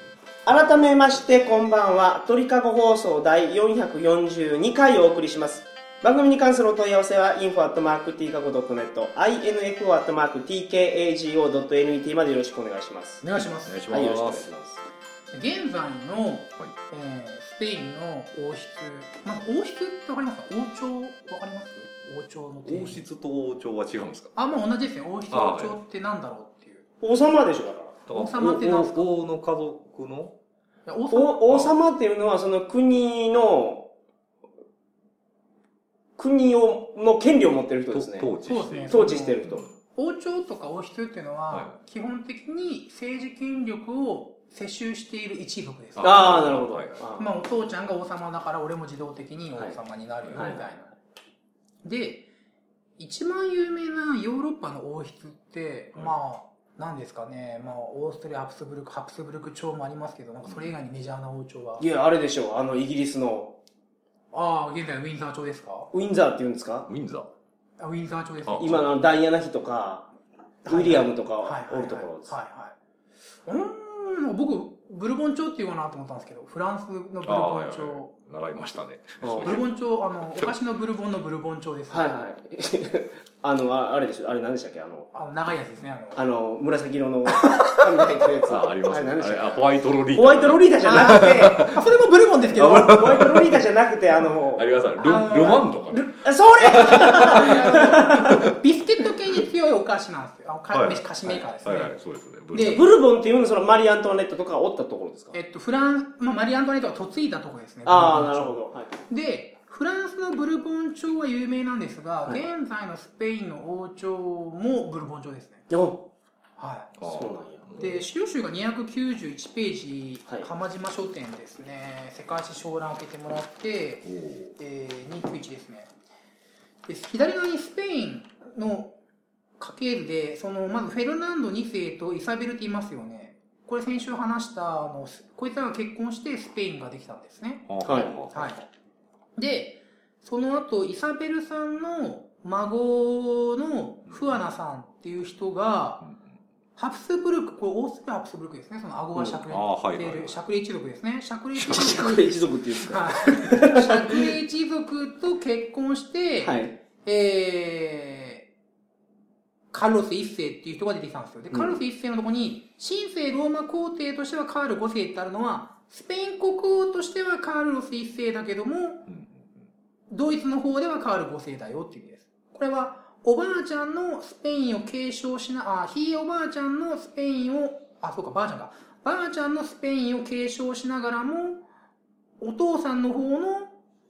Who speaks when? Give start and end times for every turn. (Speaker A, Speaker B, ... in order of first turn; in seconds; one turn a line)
Speaker A: 0.5-13.2
Speaker B: 13.2-13.8
Speaker C: 13.6-14.5
Speaker A: 13.9-14.8
Speaker B: 15.3-23.1
Speaker C: 22.7-24.3
Speaker B: 24.4-26.9
Speaker C: 25.3-25.8
Speaker A: 27.0-28.0
Speaker C: 28.1-30.4
Speaker B: 28.1-29.1
Speaker B: 30.9-31.4
Speaker A: 31.1-33.9
Speaker A: 36.2-38.3
Speaker C: 37.9-39.7
Speaker B: 38.4-39.4
Speaker A: 38.9-39.6
Speaker B: 39.9-46.5
Speaker C: 46.0-47.0
Speaker A: 46.0-47.3
Speaker B: 47.2-50.9
Speaker A: 50.4-50.7
Speaker B: 51.8-52.3
Speaker B: 53.0-61.9
Speaker A: 61.8-63.6
Speaker B: 64.3-65.9
Speaker A: 65.9-66.9
Speaker C: 66.9-67.3
Speaker B: 67.8-68.8
Speaker C: 68.5-68.8
Speaker A: 68.6-70.1
Speaker A: 70.7-72.3
Speaker B: 70.7-72.8
Speaker B: 73.5-78.1
Speaker C: 77.2-79.7
Speaker A: 79.2-79.6
Speaker B: 79.4-82.1
Speaker A: 81.9-85.1
Speaker B: 85.1-86.2
Speaker A: 86.2-91.8
Speaker B: 87.3-87.8
Speaker C: 88.5-91.8
Speaker B: 90.8-93.3
Speaker A: 92.6-94.7
Speaker C: 92.6-93.6
Speaker C: 94.5-97.5
Speaker B: 95.0-101.9
Speaker A: 96.2-98.4
Speaker C: 100.7-102.8
Speaker B: 102.5-102.9
Speaker A: 102.6-105.4
Speaker B: 105.3-115.7
Speaker A: 107.8-109.0
Speaker A: 115.7-116.1
Speaker B: 116.6-117.0
Speaker C: 117.0-118.1
Speaker A: 117.0-117.7
Speaker B: 117.8-125.9
Speaker C: 124.1-124.5
Speaker B: 126.9-128.9
Speaker B: 129.6-138.7
Speaker C: 137.7-138.5
Speaker A: 137.8-138.3
Speaker B: 139.4-146.1
Speaker B: 146.8-158.5
Speaker C: 149.5-150.4
Speaker A: 151.6-154.3
Speaker A: 156.4-156.8
Speaker B: 159.7-169.1
Speaker A: 161.5-161.8
Speaker C: 169.1-169.5
Speaker B: 170.1-181.6
Speaker B: 182.4-183.7